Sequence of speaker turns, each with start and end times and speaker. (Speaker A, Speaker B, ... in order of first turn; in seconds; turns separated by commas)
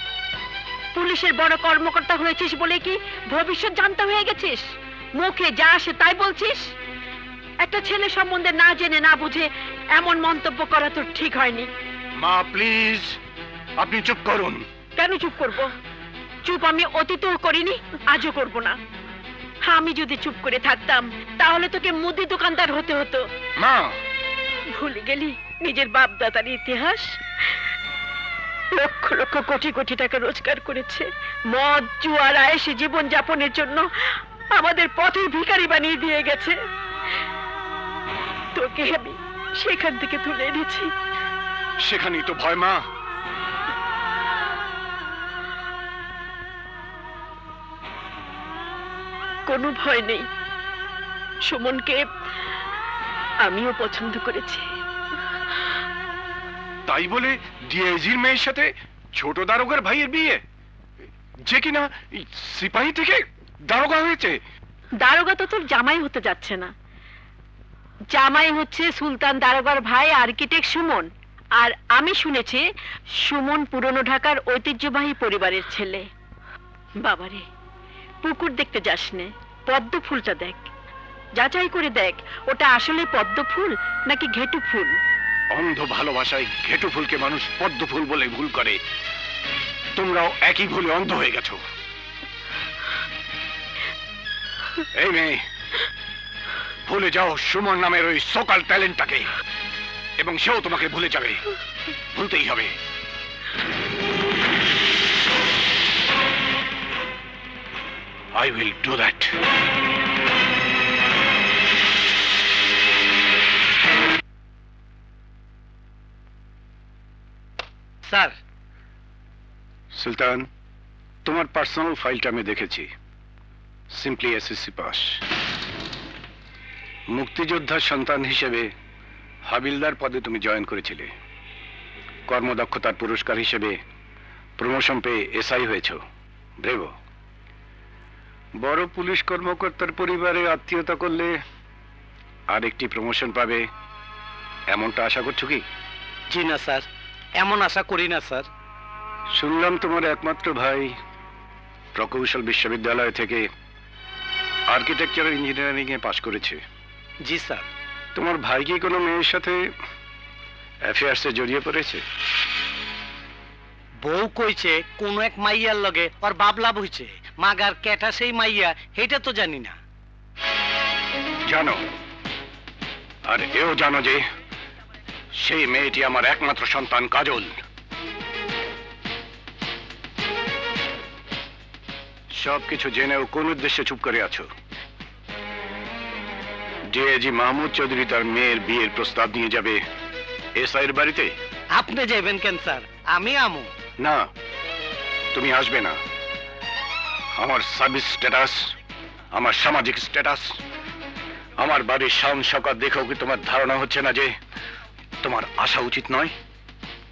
Speaker A: 0.9-6.7, Speaker A: 7.6-11.7, Speaker B: 12.2-13.2, Speaker B: 13.8-14.6, Speaker A: 15.0-15.7, Speaker A: 16.4-18.8, Speaker A: 19.6-23.3, Speaker B: 23.6-23.9, Speaker A: 24.7-27.2, Speaker A: 28.8-33.9, Speaker A: 34.5-36.6, Speaker A: 38.5-40.9, Speaker B: 41.8-42.8, Speaker A: 49.5-50.3, Speaker A: 51.5-52.0, Speaker A: 53.5-54.6, Speaker B: 56.9-60.4, Speaker B: 61.5-64.4, Speaker A: 65.0-66.7, Speaker A: 68.1-72.6, Speaker A: 73.2-76.1, Speaker A: 77.0-77.5, Speaker A: 78.2-80.7, Speaker A: 81.4-84.9, Speaker B: 85.5-88.8, Speaker B: 90.0-91.6, Speaker B: 95.0-95.4, Speaker B: 96.9-99.3, Speaker B: 100.2-101.4, Speaker B: 102.1-102.7, Speaker B: 108.3-109.3, Speaker C: 118.1-118.3, Speaker B: 119.9-120.5, Speaker B: 121.2-122.9, Speaker B: 123.9-125.2, Speaker B: 127.1-128.7, Speaker B: 129.5-131.1, Speaker B: 132.3-133.8, Speaker B: 134.6-136.0, Speaker B: 136.6-136.9, Speaker B: 138.6-141.4, Speaker B: 142.5-143.7, Speaker B: 144.7-145.6, Speaker C: 146.3-146.9, Speaker C: 147.4-148.5, Speaker B: 149.4-150.9, Speaker B: 152.0-153.5, Speaker B: 154.7-156.6, Speaker C: 157.2-157.7, Speaker B: 158.2-159.6, Speaker B: 160.9-162.0, Speaker C: 164.0-169.8, Speaker B: 171.5-171.8, Speaker B: 173.3-174.2, Speaker B: 175.4-177.6, Speaker B: 182.3-184.5, Speaker B: 186.9-189.8, Speaker B: 190.6-191.3, Speaker C: 191.8-193.7, Speaker B: 195.3-196.0, Speaker B: 197.4-198.7, Speaker B: 199.3-200.6, Speaker B: 201.6-204.3, Speaker B: 205.2-206.3